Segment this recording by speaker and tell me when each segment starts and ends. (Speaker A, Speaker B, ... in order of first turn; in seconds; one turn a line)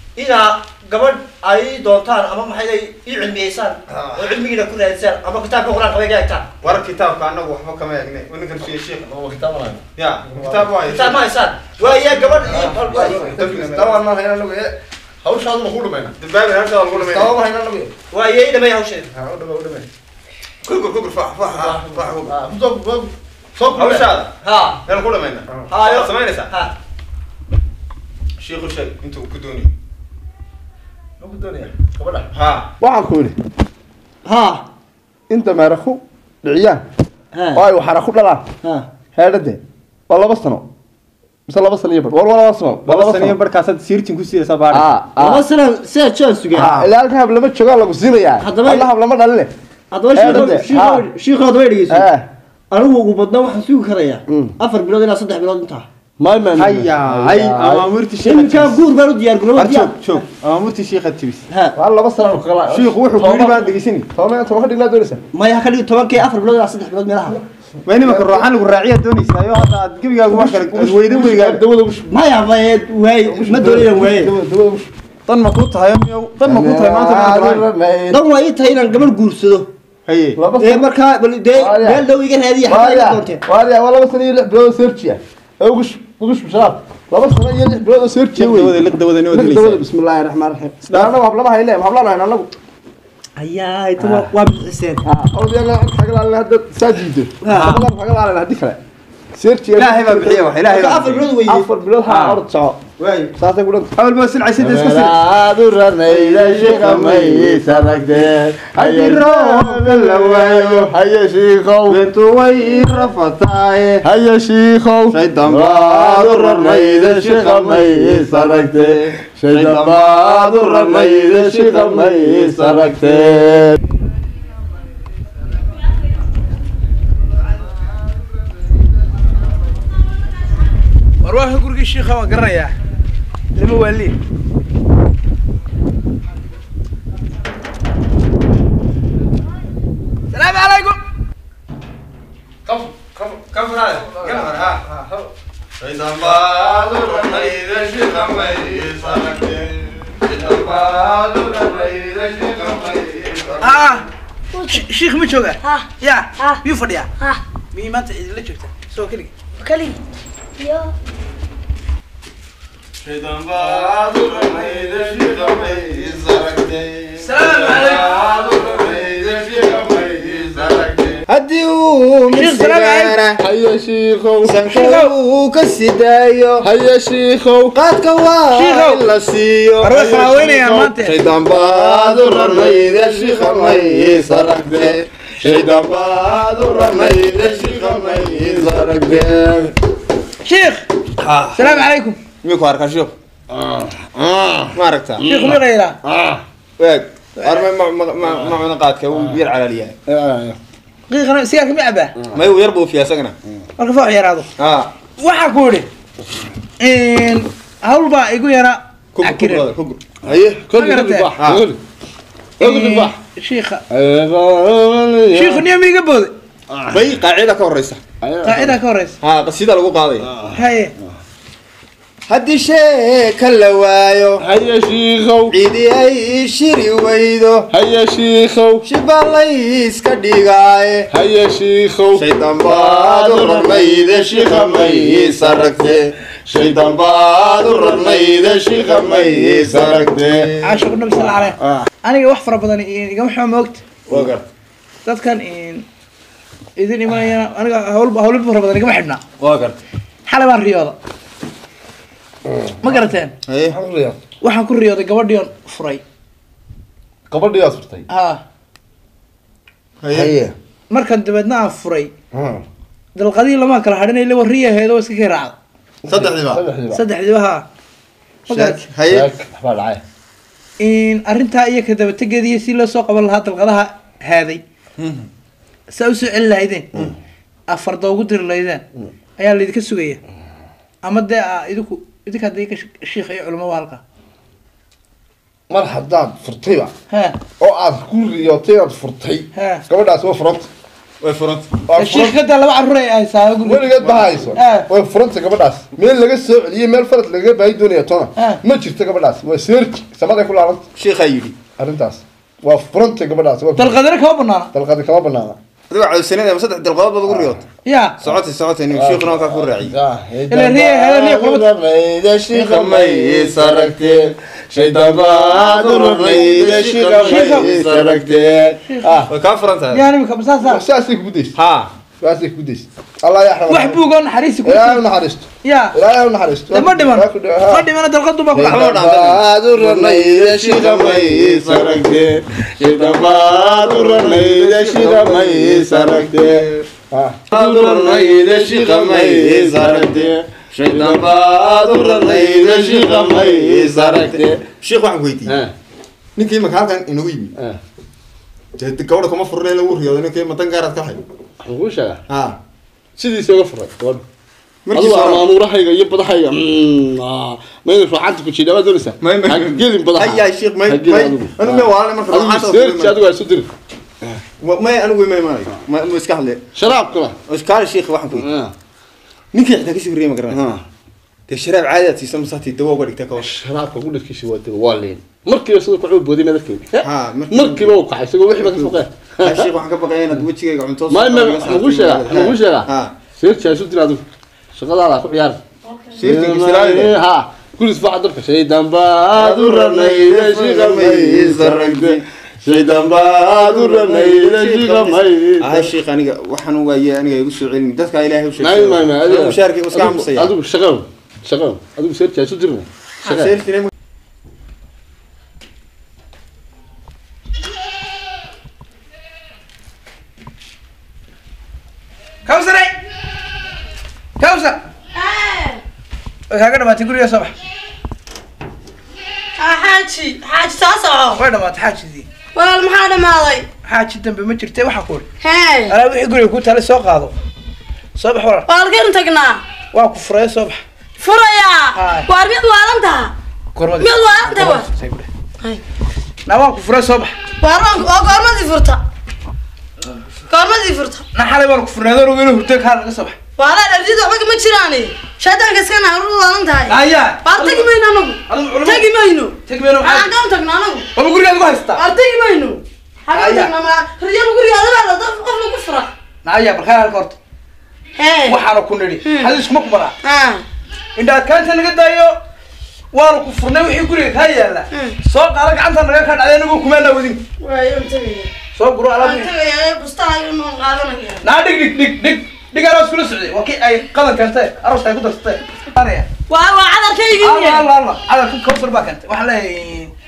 Speaker A: 0.2-6.5
Speaker B: 3.9-4.4
Speaker B: 6.6-9.1
Speaker C: 9.0-10.7
Speaker B: 10.0-11.3
Speaker A: 10.8-13.4
Speaker B: 11.8-14.0
Speaker C: 12.5-16.1
Speaker B: 16.2-17.3
Speaker C: 16.9-17.9
Speaker A: 18.1-19.1
Speaker C: 19.1-19.9
Speaker B: 20.6-22.3
Speaker C: 21.4-24.0
Speaker B: 23.6-24.3
Speaker A: 24.4-24.8
Speaker B: 24.9-26.5
Speaker A: 25.7-26.7
Speaker B: 28.4-29.7
Speaker C: 31.2-32.2
Speaker B: 32.3-32.7
Speaker C: 32.8-33.4
Speaker A: 34.2-34.7
Speaker C: 35.3-36.8
Speaker A: 37.3-37.6
Speaker C: 37.5-38.5
Speaker C: 39.1-40.7
Speaker C: 41.5-43.4
Speaker B: 42.9-44.9
Speaker C: 44.7-45.5
Speaker A: 45.2-46.9
Speaker C: 46.5-49.5
Speaker A: 48.4-48.9
Speaker A: 49.9-52.1
Speaker C: 50.1-51.1
Speaker B: 50.2-50.5
Speaker C: 51.9-52.3
Speaker A: 52.7-55.9
Speaker C: 54.3-54.5
Speaker C: 56.2-57.9
Speaker B: 56.6-58.8
Speaker A: 58.2-59.9
Speaker B: 59.6-61.5
Speaker A: 61.5-61.8
Speaker C: 61.8-65.2
Speaker B: 62.7-64.1
Speaker A: 65.3-67.4
Speaker B: 67.8-71.6
Speaker C: 68.0-68.5
Speaker C: 70.3-72.1
Speaker A: 72.1-74.3
Speaker C: 73.2-74.9
Speaker B: 75.3-77.7
Speaker C: 76.4-78.2
Speaker A: 78.1-79.7
Speaker B: 80.1-80.4
Speaker C: 80.4-80.9
Speaker A: 80.6-83.4
Speaker C: 81.5-82.0
Speaker C: 82.7-88.8
Speaker B: 88.4-89.8
Speaker C: 89.3-92.5
Speaker A: 93.4-95.0
Speaker C: 94.0-94.3
Speaker C: 95.0-98.8
Speaker A: 97.4-97.8
Speaker B: 97.5-97.8
Speaker C: 99.3-100.5
Speaker B: 99.8-101.3
Speaker A: 100.7-101.7
Speaker C: 101.5-102.8
Speaker B: 102.1-102.4
Speaker A: 103.0-103.3
Speaker C: 103.4-103.9
Speaker B: 104.0-105.2
Speaker C: 104.6-112.0
Speaker B: 106.2-107.7
Speaker B: 108.8-110.9
Speaker B: 111.9-114.0
Speaker C: 114.0-123.8
Speaker B: 115.1-119.0
Speaker B: 119.5-123.3
Speaker C: 127.6-128.2
Speaker D: 131.2-132.7
Speaker D: 133.6-134.2
Speaker D: 140.3-141.0
Speaker C: 142.7-145.3
Speaker B: 143.5-144.8
Speaker B: 145.8-149.7
Speaker C: 146.1-153.9
Speaker B: 150.3-150.9
Speaker D: 153.6-154.1
Speaker E: 154.5-154.8
Speaker D: 154.7-157.1
Speaker E: 155.6-156.6
Speaker D: 157.7-159.3
Speaker E: 159.6-160.0
Speaker E: 160.6-160.9
Speaker B: 163.0-173.4
Speaker C: 163.4-166.2
Speaker D: 167.2-168.1
Speaker C: 167.3-171.2
Speaker D: 172.3-173.2
Speaker C: 173.4-174.7
Speaker B: 174.4-176.7
Speaker D: 174.7-175.1
Speaker C: 176.6-177.8
Speaker B: 177.7-189.5
Speaker D: 178.5-179.0
Speaker D: 179.8-181.2
Speaker C: 181.5-189.7
Speaker D: 190.4-190.9
Speaker B: 191.2-191.8
Speaker D: 191.6-192.2
Speaker B: 192.4-193.1
Speaker C: 193.5-196.4
Speaker B: 194.7-195.2
Speaker D: 195.2-196.0
Speaker B: 196.8-199.9
Speaker D: 197.4-197.6
Speaker C: 200.1-200.6
Speaker D: 201.1-202.1
Speaker B: 202.3-203.3
Speaker D: 203.8-204.5
Speaker B: 204.6-204.9
Speaker D: 205.2-205.9
Speaker D: 206.8-209.6
Speaker B: 209.2-210.0
Speaker C: 210.2-211.8
Speaker D: 210.8-211.3
Speaker B: 211.4-211.6
Speaker C: 212.6-213.2
Speaker D: 212.6-213.8
Speaker C: 213.9-215.7
Speaker D: 215.3-216.3
Speaker C: 216.7-217.0
Speaker B: 216.9-218.0
Speaker C: 218.2-218.8
Speaker D: 218.4-219.2
Speaker B: 219.2-220.3
Speaker C: 220.2-220.6
Speaker D: 220.6-220.9
Speaker B: 222.3-224.4
Speaker C: 224.4-225.6
Speaker B: 225.5-227.7
Speaker C: 227.7-228.9
Speaker B: 228.8-231.1
Speaker C: 231.1-240.5
Speaker B: 232.2-240.6
Speaker D: 240.6-243.8
Speaker B: 244.1-244.4
Speaker D: 245.1-245.8
Speaker D: 246.8-249.2
Speaker B: 249.4-249.8
Speaker D: 250.3-251.0
Speaker C: 252.5-253.1
Speaker D: 252.8-253.3
Speaker B: 253.5-253.8
Speaker C: 253.7-254.2
Speaker D: 254.4-256.0
Speaker C: 257.3-258.1
Speaker D: 258.1-258.4
Speaker B: 260.0-260.3
Speaker C: 260.1-260.6
Speaker D: 260.9-262.1
Speaker C: 262.3-262.6
Speaker D: 263.1-265.6
Speaker B: 266.1-266.6
Speaker C: 266.1-267.0
Speaker D: 266.9-267.7
Speaker D: 268.5-268.8
Speaker B: 268.5-269.3
Speaker C: 269.1-270.0
Speaker D: 270.8-274.6
Speaker B: 275.0-275.3
Speaker D: 275.9-276.9
Speaker D: 277.7-278.8
Speaker D: 279.4-280.2
Speaker D: 281.0-284.0
Speaker C: 285.7-286.9
Speaker D: 287.1-287.4
Speaker C: 287.6-290.7
Speaker D: 289.6-289.8
Speaker B: 291.2-291.8
Speaker C: 291.9-292.4
Speaker D: 292.0-294.0
Speaker C: 293.6-300.9
Speaker D: 294.6-294.9
Speaker B: 301.0-301.6
Speaker C: 301.8-304.0
Speaker D: 303.8-304.7
Speaker C: 304.7-305.6
Speaker B: 305.9-307.6
Speaker C: 307.3-307.6
Speaker D: 307.9-308.2
Speaker B: 308.2-310.0
Speaker C: 308.9-319.3
Speaker D: 310.5-311.7
Speaker B: 312.5-314.1
Speaker B: 314.7-318.4
Speaker D: 317.3-317.7
Speaker D: 318.9-319.3
Speaker B: 319.3-320.0
Speaker D: 319.9-320.8
Speaker C: 320.6-321.6
Speaker B: 321.6-321.9
Speaker C: 322.2-324.1
Speaker D: 323.7-325.0
Speaker C: 324.6-327.9
Speaker D: 325.6-326.0
Speaker D: 326.7-328.8
Speaker C: 328.5-344.6
Speaker B: 328.6-332.0
Speaker B: 333.0-336.8
Speaker B: 337.5-345.6
Speaker C: 345.5-345.7
Speaker B: 346.4-347.5
Speaker B: 348.8-351.2
Speaker C: 351.6-352.2
Speaker B: 352.3-352.6
Speaker C: 353.2-354.2
Speaker B: 354.9-355.4
Speaker C: 354.9-363.7
Speaker B: 359.2-363.2
Speaker B: 364.6-366.7
Speaker C: 366.8-367.4
Speaker B: 367.5-368.5
Speaker C: 368.3-368.7
Speaker B: 369.5-370.7
Speaker C: 370.5-370.8
Speaker B: 371.5-373.6
Speaker C: 373.4-379.7
Speaker B: 377.0-378.0
Speaker B: 378.6-383.1
Speaker C: 381.1-384.2
Speaker C: 384.7-385.6
Speaker E: 385.9-386.2
Speaker B: 386.2-387.1
Speaker C: 386.2-395.9
Speaker B: 389.4-392.2
Speaker B: 392.7-400.5
Speaker C: 398.6-403.6
Speaker B: 403.2-403.9
Speaker D: 412.5-412.9
Speaker D: 414.4-414.8
Speaker E: 415.1-415.8
Speaker D: 416.5-417.5
Speaker E: 419.6-421.4
Speaker D: 421.4-422.3
Speaker E: 422.5-423.7
Speaker D: 423.9-425.3
Speaker E: 425.4-425.9
Speaker D: 425.9-427.4
Speaker D: 428.2-428.7
Speaker E: 428.7-429.6
Speaker D: 429.9-430.8
Speaker E: 431.2-433.3
Speaker D: 431.9-432.3
Speaker D: 433.8-435.3
Speaker E: 434.0-434.9
Speaker D: 436.5-437.3
Speaker E: 437.6-439.0
Speaker E: 440.5-441.2
Speaker D: 441.3-443.4
Speaker E: 443.6-451.1
Speaker D: 446.9-447.9
Speaker D: 448.5-449.1
Speaker D: 449.7-450.3
Speaker D: 451.1-452.0
Speaker E: 451.9-456.1
Speaker D: 453.3-453.7
Speaker D: 456.4-457.4
Speaker E: 458.2-458.6
Speaker D: 458.5-460.1
Speaker E: 459.2-459.6
Speaker E: 460.2-460.6
Speaker D: 461.2-462.4
Speaker D: 463.1-467.4
Speaker E: 467.6-468.5
Speaker D: 468.8-469.5
Speaker E: 469.2-471.4
Speaker D: 471.4-476.3
Speaker E: 476.5-477.9
Speaker D: 477.4-480.1